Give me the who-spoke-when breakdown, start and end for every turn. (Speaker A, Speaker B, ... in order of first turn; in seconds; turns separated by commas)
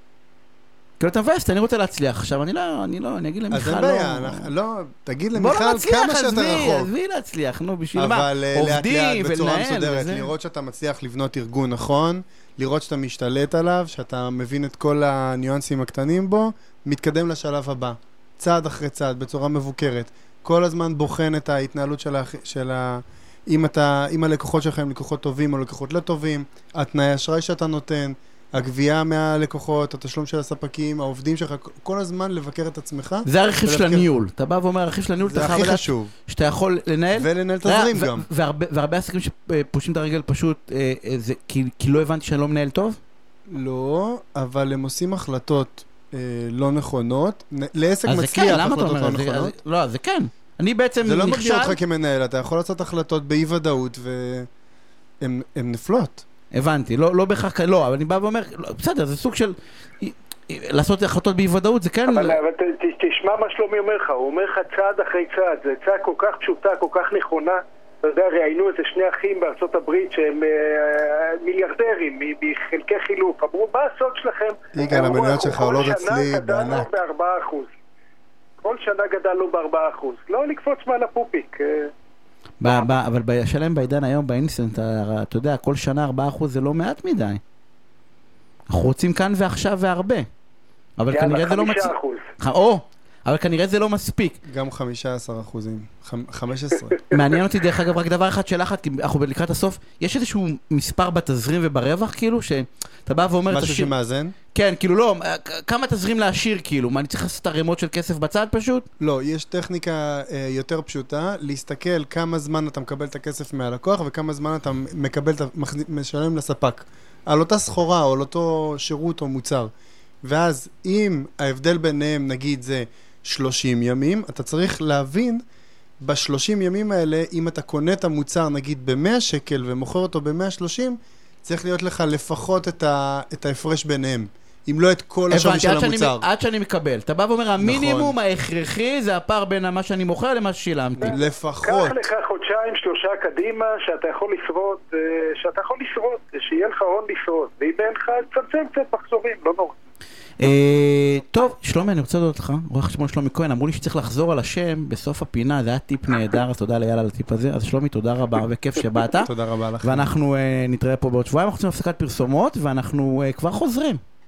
Speaker A: 1.0-4.5, Speaker B: 3.5-6.9, Speaker A: 5.3-10.3, Speaker B: 8.0-34.1, Speaker A: 33.3-43.0, Speaker B: 35.2-36.1, Speaker B: 37.1-38.3, Speaker B: 43.5-49.6, Speaker A: 48.1-51.8, Speaker B: 51.0-54.5, Speaker B: 55.2-56.3, Speaker A: 56.5-62.4, Speaker C: 62.1-77.7, Speaker B: 74.7-77.0, Speaker C: 78.6-81.9, Speaker A: 82.6-87.4, Speaker A: 88.7-90.3, Speaker A: 91.0-94.4, Speaker C: 91.1-92.3, Speaker B: 94.5-97.0, Speaker A: 97.1-103.9, Speaker B: 103.5-104.3, Speaker A: 104.5-108.9, Speaker B: 109.0-119.7, Speaker B: 120.2-125.4, Speaker B: 126.0-136.3, Speaker A: 135.3-141.2, Speaker B: 137.6-138.2, Speaker B: 141.0-142.1, Speaker C: 141.1-149.8, Speaker A: 150.4-159.3, Speaker B: 159.2-160.1, Speaker A: 159.8-164.0